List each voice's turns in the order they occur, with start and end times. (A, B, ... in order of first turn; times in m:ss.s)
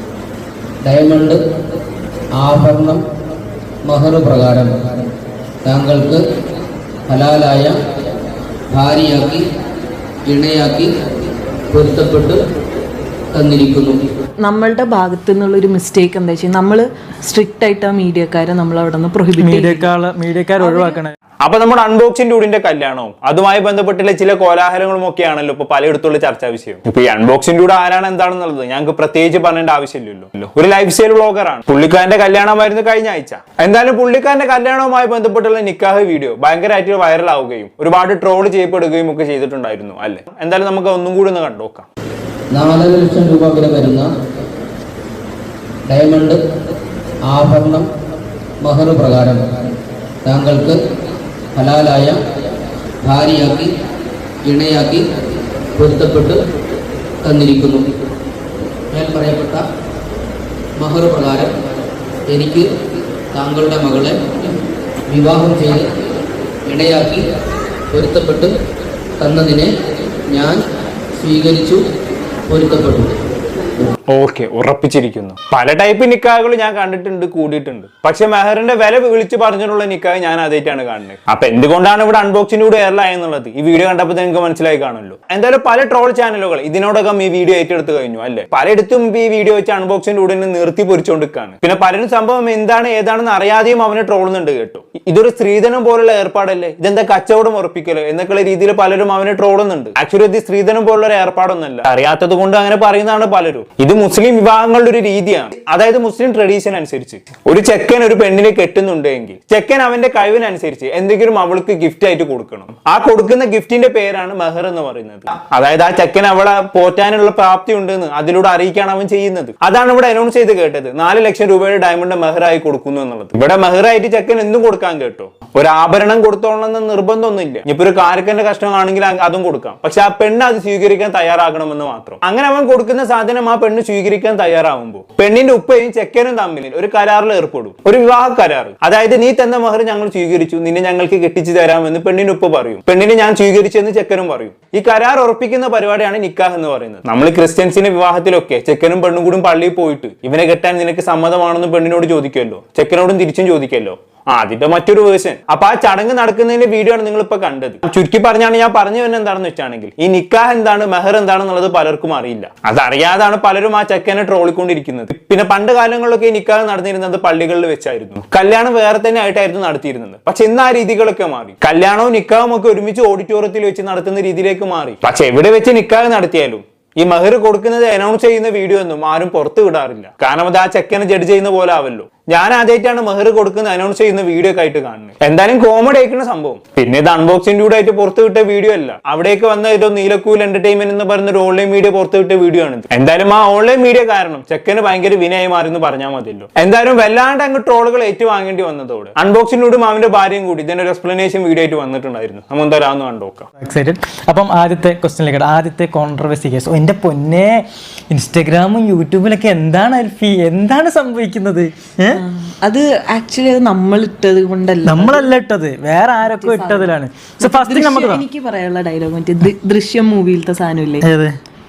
0:00.8-0:01.4 A
0:02.4-0:03.0 A
0:03.8-0:04.7 A
0:05.6-0:06.2 A
0:07.1-0:07.8 A
0:08.7-0:09.4 A
0:10.2-0:10.9 A
0:11.7-0:12.4 A
0:13.3-0:14.0 A
0:14.4-0:19.9 B
0:19.4-0:21.1 C
0:20.6-0:21.0 B
0:21.4-0:41.9 D
0:42.5-0:44.0 A
0:45.9-0:46.4 A
0:47.3-0:47.9 A
0:48.6-0:49.4 A
0:50.2-0:50.8 A
0:51.6-0:52.2 A
0:53.0-0:53.7 A
0:54.4-0:55.0 A
0:55.8-0:56.4 A
0:57.2-0:57.9 A
0:58.9-0:59.6 A
1:00.8-1:01.5 A
1:02.3-1:02.6 A
1:03.3-1:04.5 A
1:05.1-1:05.9 A
1:06.6-1:07.2 A
1:07.9-1:08.5 A
1:09.2-1:09.7 A
1:10.3-1:10.6 A
1:11.2-1:11.8 A
1:12.5-1:13.1 A
1:14.1-3:23.5 D
3:23.6-3:32.2 C
3:32.1-3:35.3 B
3:34.8-3:38.2 C
3:36.2-3:41.0 B
3:41.0-3:41.3 C